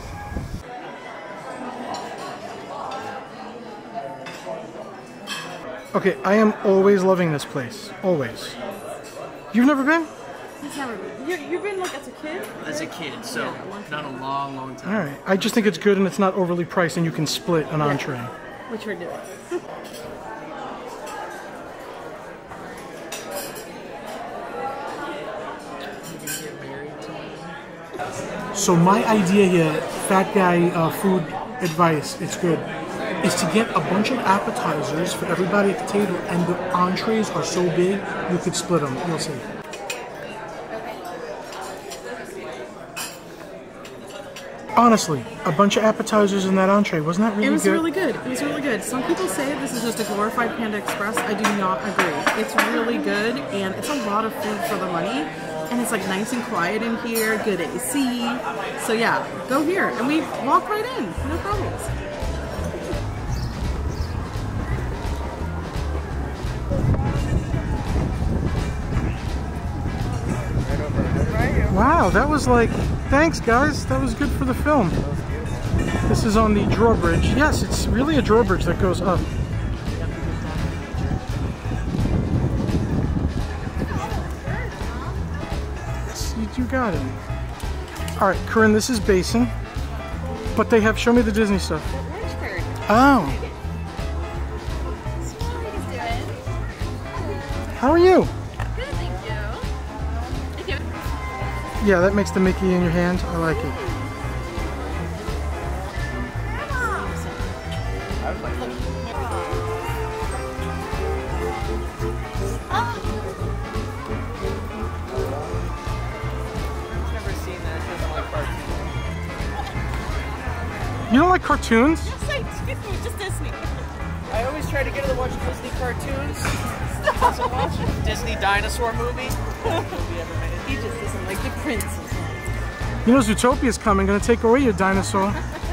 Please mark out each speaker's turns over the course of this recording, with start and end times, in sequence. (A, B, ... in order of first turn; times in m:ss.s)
0:05.9-0:08.6 A
0:09.5-0:10.1 A
0:10.6-0:14.2 B
0:12.7-0:14.5 C
0:14.8-0:18.3 A
0:18.7-0:19.6 B
0:28.5-0:32.7 A
0:33.2-0:39.4 A
0:44.8-0:47.8 A
0:47.4-1:01.9 B
1:10.6-1:11.7 C
1:11.2-1:11.8 B
1:11.7-1:15.0 A
1:14.9-1:15.7 C
1:16.1-1:19.2 A
1:23.8-1:24.9 B
1:26.0-1:27.2 A
1:28.2-1:29.5 A
1:30.5-1:31.9 A
1:31.9-1:33.5 B
1:32.9-1:33.4 A
1:35.3-1:36.3 B
1:37.8-1:38.3 A
1:38.8-1:39.6 B
1:41.8-1:43.8 A
1:43.6-1:44.0 B
1:46.5-1:47.5 B
1:48.2-1:48.8 C
1:48.6-1:49.5 B
1:52.7-1:53.0 B
1:55.1-1:55.5 C
1:56.9-1:58.8 C
2:01.1-2:02.1 A
2:02.0-2:03.6 B
2:04.3-2:06.5 C
2:07.2-2:09.3 C
2:07.2-2:07.5 B
2:10.1-2:10.6 C
2:10.6-2:12.5 B
2:13.0-2:15.4 A